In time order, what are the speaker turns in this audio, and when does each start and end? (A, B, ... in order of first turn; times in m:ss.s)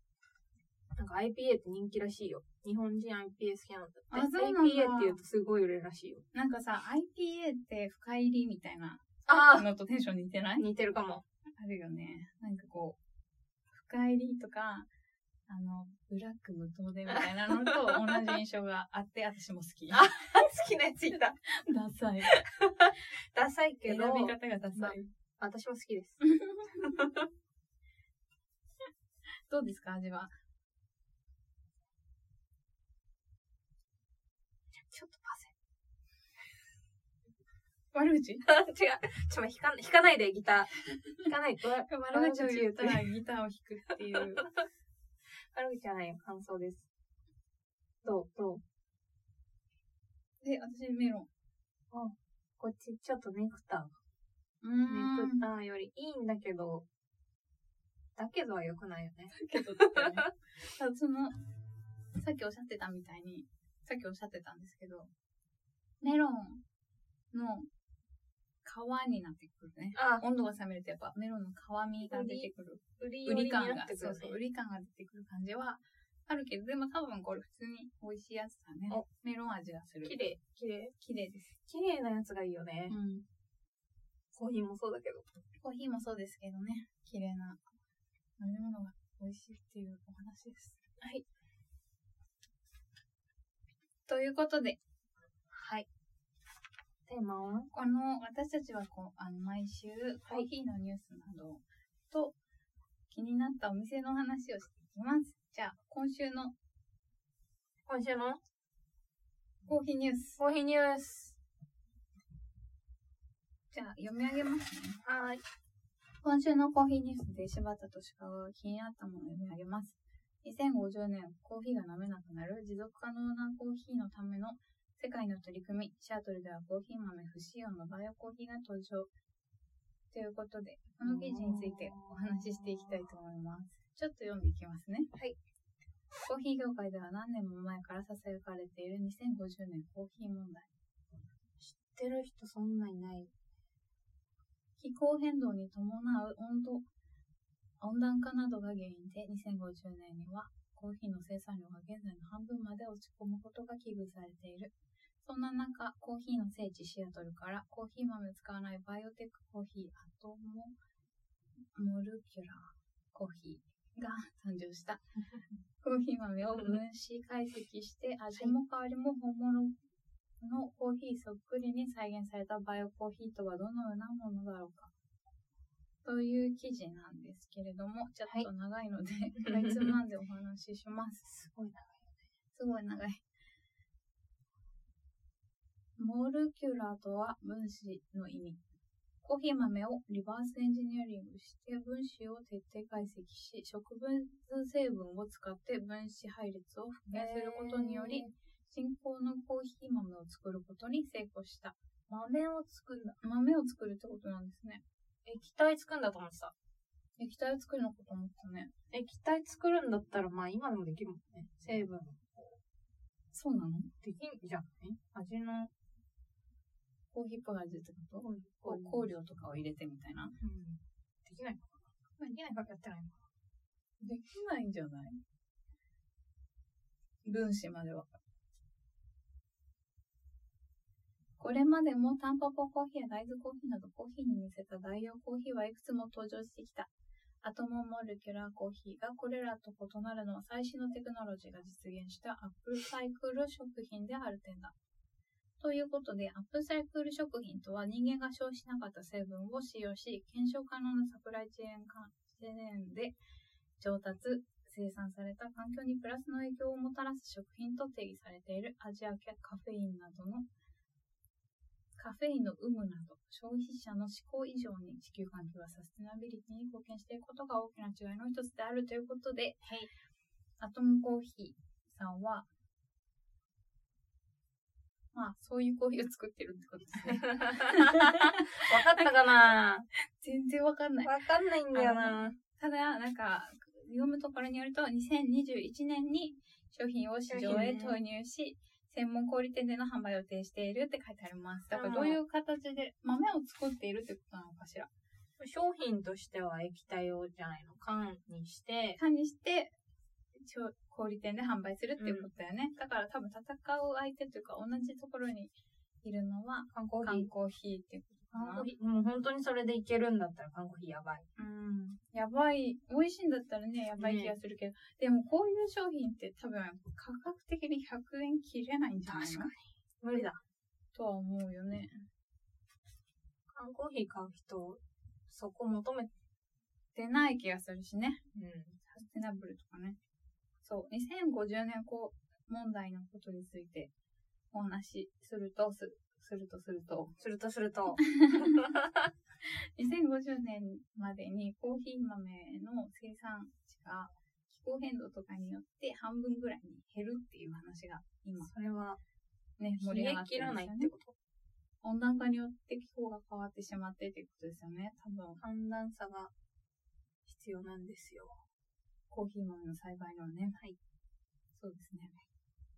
0:01.0-0:06.2 A
0:04.1-0:05.2 B
0:06.3-0:10.6 B
0:09.2-0:09.7 A
0:10.6-0:11.2 A
0:11.6-0:13.0 B
0:13.7-0:14.9 B
0:15.5-0:20.1 B
0:19.9-0:21.4 A
0:21.4-0:22.4 B
0:22.3-0:26.2 A
0:23.8-0:25.1 B
0:26.2-0:26.8 B
0:26.8-0:27.2 A
0:29.5-0:30.3 B
0:34.9-0:35.5 A
0:37.9-0:38.4 B
0:38.4-0:43.0 A
0:42.0-0:44.5 B
0:45.5-0:46.9 A
0:48.0-0:48.6 A
0:50.4-0:51.3 B
0:51.9-0:54.0 A
0:54.6-0:55.4 B
0:54.8-0:56.8 A
0:58.2-1:00.3 A
0:59.3-1:01.4 B
1:02.1-1:05.1 B
1:06.0-1:06.6 B
1:07.3-1:07.7 B
1:08.6-1:20.2 B
1:09.9-1:10.2 A
1:12.0-1:14.4 A
1:20.0-1:20.9 A
1:21.0-1:21.5 B
1:21.6-1:23.0 A
1:22.9-1:23.2 B
1:24.3-1:25.2 A
1:25.6-1:27.6 B
1:28.4-1:30.8 B
1:31.0-1:31.2 A
1:34.1-1:34.8 B
1:35.5-1:35.9 A
1:37.1-1:37.7 A
1:37.7-1:42.4 B
1:43.1-1:46.5 B
1:47.8-1:48.4 A
1:49.6-1:50.4 B
1:50.4-1:51.4 A
1:53.7-1:55.0 B
1:55.0-1:55.4 A
1:56.2-2:09.1 B
2:10.1-2:15.1 B
2:11.0-2:13.0 A
2:16.2-2:20.7 B
2:21.6-2:23.3 A
2:24.8-2:26.8 B
2:27.8-2:40.7 B
2:41.7-2:45.0 B
2:45.8-2:49.7 B
2:50.4-2:54.9 B
2:56.0-3:01.2 B
2:59.4-3:00.0 A
3:01.2-3:02.2 A
3:02.5-3:03.2 B
3:06.0-3:08.6 B
3:09.2-3:21.8 B
3:17.1-3:18.3 A
3:22.1-3:23.2 A
3:23.2-3:24.8 B
3:25.2-3:26.5 A
3:27.2-3:28.7 B
3:28.9-3:32.6 A
3:33.3-3:33.9 B
3:34.0-3:35.7 A
3:37.1-3:40.3 B
3:38.2-3:39.1 A
3:40.4-3:43.2 A
3:44.0-3:45.2 B
3:47.2-3:48.1 B
3:51.4-3:56.9 B
3:57.4-4:04.7 B
4:05.6-4:13.1 B
4:13.8-4:20.4 B
4:22.0-4:29.6 B
4:29.6-4:29.9 A
4:30.6-4:32.5 B
4:35.1-4:39.2 B
4:37.0-4:39.8 A
4:40.0-4:41.1 B
4:41.0-4:42.3 A
4:41.7-4:54.9 B
4:47.3-4:48.0 A
4:51.7-4:52.2 A
4:55.4-4:59.0 A
4:59.0-4:59.7 B
5:00.3-5:08.7 B
5:02.0-5:02.3 A
5:06.7-5:07.3 A
5:08.3-5:11.3 A
5:11.4-5:19.5 B
5:14.0-5:14.3 A
5:19.0-5:20.4 A
5:20.9-5:22.0 B
5:23.5-5:26.1 A
5:26.9-5:28.2 B
5:28.3-5:28.8 A
5:28.9-5:30.0 B
5:30.6-5:33.9 B
5:34.5-5:37.1 B
5:37.2-5:39.0 A
5:38.0-5:38.6 B
5:39.4-5:48.5 B
5:48.4-5:49.0 A
5:49.6-5:50.9 B
5:49.8-5:51.1 A
5:51.8-5:55.4 B
5:55.4-5:56.3 A
5:57.2-5:58.4 A
5:59.1-6:00.6 B
6:01.5-6:02.2 B